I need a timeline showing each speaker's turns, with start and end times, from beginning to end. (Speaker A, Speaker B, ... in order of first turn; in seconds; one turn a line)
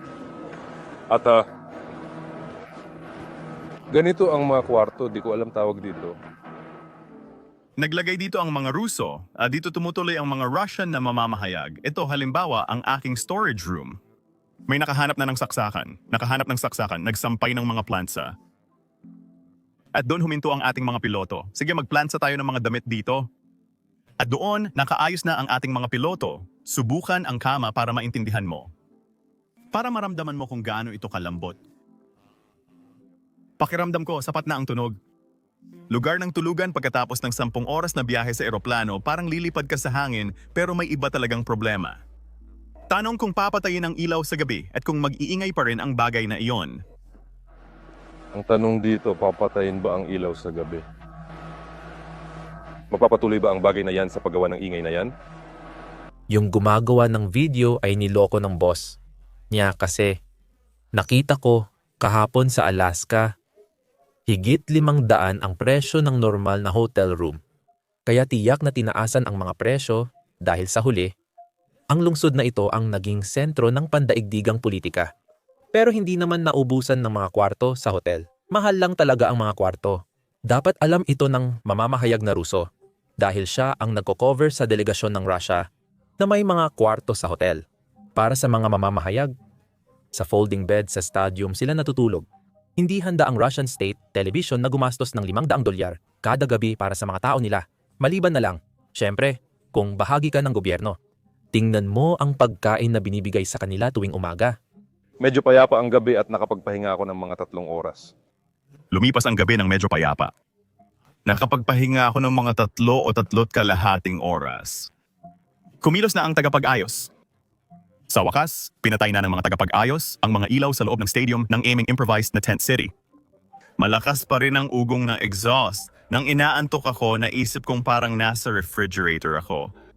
Speaker A: 1.1-1.4
Speaker A: 3.9-6.2
Speaker B: 7.8-14.0
Speaker B: 14.7-18.3
Speaker B: 19.9-23.2
Speaker B: 24.2-28.7
Speaker B: 29.7-31.6
Speaker B: 33.6-34.9
Speaker B: 35.9-42.0
Speaker B: 42.9-46.8
Speaker A: 48.3-50.9
Speaker A: 52.9-55.1
Speaker C: 56.3-59.0
Speaker C: 59.5-60.1
Speaker C: 61.0-63.3
Speaker C: 64.3-67.4
Speaker C: 68.1-71.1
Speaker C: 71.9-75.1
Speaker C: 75.7-82.7
Speaker C: 83.2-85.7
Speaker C: 86.2-87.6
Speaker C: 88.2-89.3
Speaker C: 90.1-92.2
Speaker C: 92.8-101.0
Speaker C: 101.5-104.5
Speaker A: 105.2-108.1
Speaker B: 108.9-110.3
Speaker B: 111.3-114.9
Speaker B: 115.8-117.1
Speaker B: 118.1-122.9
Speaker B: 123.8-129.7